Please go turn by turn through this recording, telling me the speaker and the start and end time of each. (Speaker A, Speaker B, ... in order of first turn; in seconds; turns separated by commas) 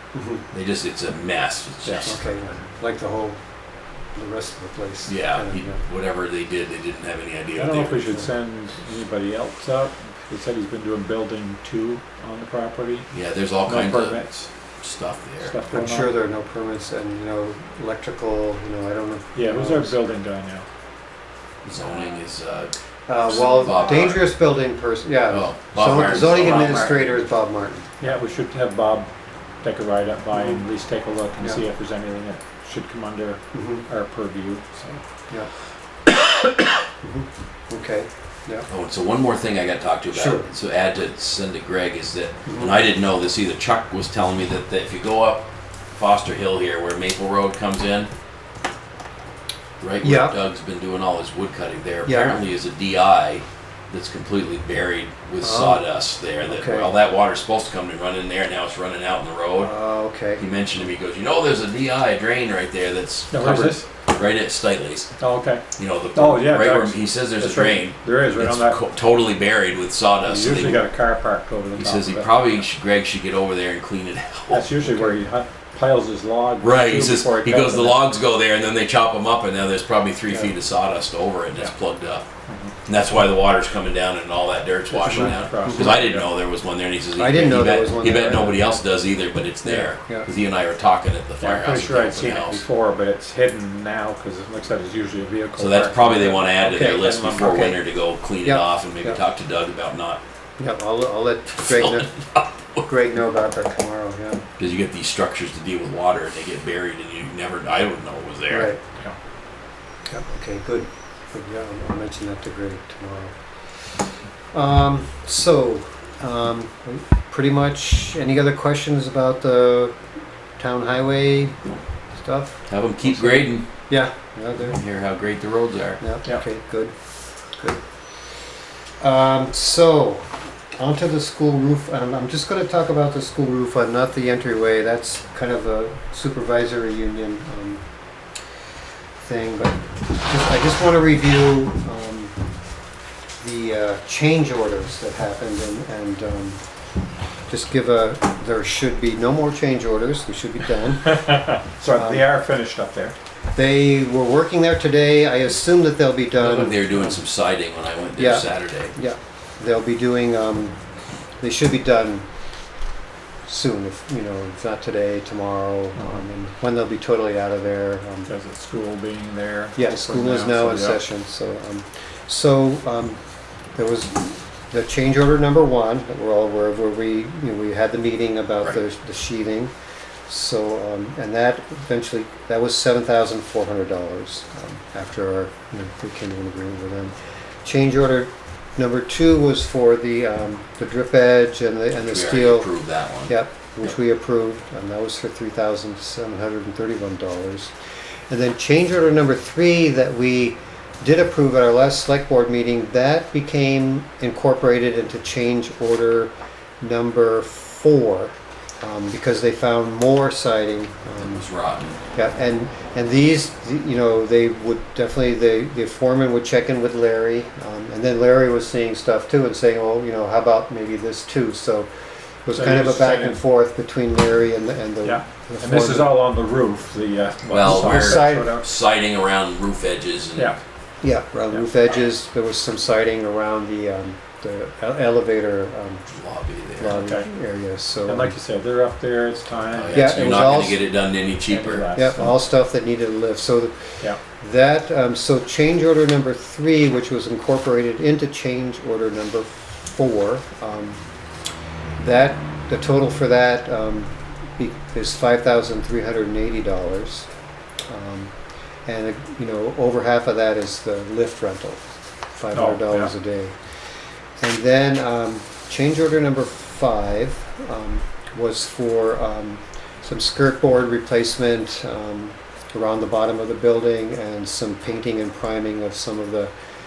Speaker A: 0.1-0.5, Speaker B: 0.5-2.2, Speaker C: 1.8-2.1, Speaker A: 2.0-3.4, Speaker A: 4.1-5.8, Speaker B: 5.1-8.0, Speaker C: 7.6-13.1, Speaker B: 13.1-14.2, Speaker C: 13.6-14.5, Speaker B: 14.8-15.6, Speaker C: 15.4-16.2, Speaker A: 15.7-19.9, Speaker C: 19.4-20.7, Speaker B: 21.6-22.7, Speaker A: 23.1-27.9, Speaker B: 23.3-24.3, Speaker B: 25.3-27.2, Speaker C: 28.0-29.1, Speaker C: 29.6-35.0, Speaker A: 33.5-33.9, Speaker A: 37.0-38.7, Speaker B: 38.7-48.1, Speaker A: 40.1-40.5, Speaker A: 42.5-42.8, Speaker B: 49.8-59.7, Speaker A: 50.0-50.4, Speaker A: 52.0-52.4, Speaker A: 55.4-55.9, Speaker A: 56.4-56.9, Speaker A: 59.6-60.4, Speaker B: 60.4-65.1, Speaker C: 63.3-63.9, Speaker C: 65.2-65.6, Speaker B: 65.8-70.9, Speaker C: 66.1-68.8, Speaker C: 70.2-72.4, Speaker B: 71.8-74.7, Speaker C: 74.5-78.0, Speaker B: 76.6-82.3, Speaker C: 82.5-82.8, Speaker B: 82.9-92.6, Speaker C: 84.9-86.3, Speaker A: 85.1-85.9, Speaker A: 87.2-88.8, Speaker A: 89.6-90.3, Speaker C: 91.4-97.8, Speaker B: 95.6-100.2, Speaker A: 98.4-99.2, Speaker A: 100.6-102.1, Speaker B: 101.5-102.8, Speaker A: 102.8-104.5, Speaker B: 104.6-108.7, Speaker A: 108.5-108.8, Speaker A: 110.1-113.3, Speaker A: 114.5-120.0, Speaker A: 120.6-121.6, Speaker A: 122.1-124.8, Speaker B: 122.7-123.7, Speaker B: 124.7-126.0, Speaker A: 126.0-126.9, Speaker A: 129.0-137.8, Speaker A: 139.2-142.3, Speaker A: 143.4-146.6, Speaker A: 147.5-151.4, Speaker C: 151.2-153.2, Speaker A: 151.9-152.3, Speaker A: 153.6-157.2, Speaker B: 156.4-158.9, Speaker A: 158.2-160.8, Speaker A: 161.4-162.3, Speaker A: 163.5-168.3, Speaker C: 168.3-171.0, Speaker A: 169.8-173.2, Speaker A: 173.8-179.7, Speaker A: 180.3-192.7, Speaker B: 192.0-193.9, Speaker A: 193.2-197.7, Speaker A: 198.3-211.4, Speaker B: 211.2-212.0, Speaker A: 212.1-221.9, Speaker A: 222.4-226.2, Speaker C: 222.5-223.4, Speaker C: 225.0-228.7, Speaker B: 227.5-230.6, Speaker A: 227.6-228.7, Speaker A: 231.0-236.1, Speaker B: 236.1-237.0, Speaker A: 236.8-238.3, Speaker C: 237.0-237.3, Speaker C: 238.1-240.4, Speaker B: 239.7-241.9, Speaker A: 239.9-240.8, Speaker C: 241.5-242.4, Speaker A: 241.9-251.0, Speaker A: 252.0-257.3, Speaker A: 257.9-258.3, Speaker A: 258.9-261.8, Speaker A: 262.3-263.6, Speaker C: 262.5-263.1, Speaker A: 264.4-276.5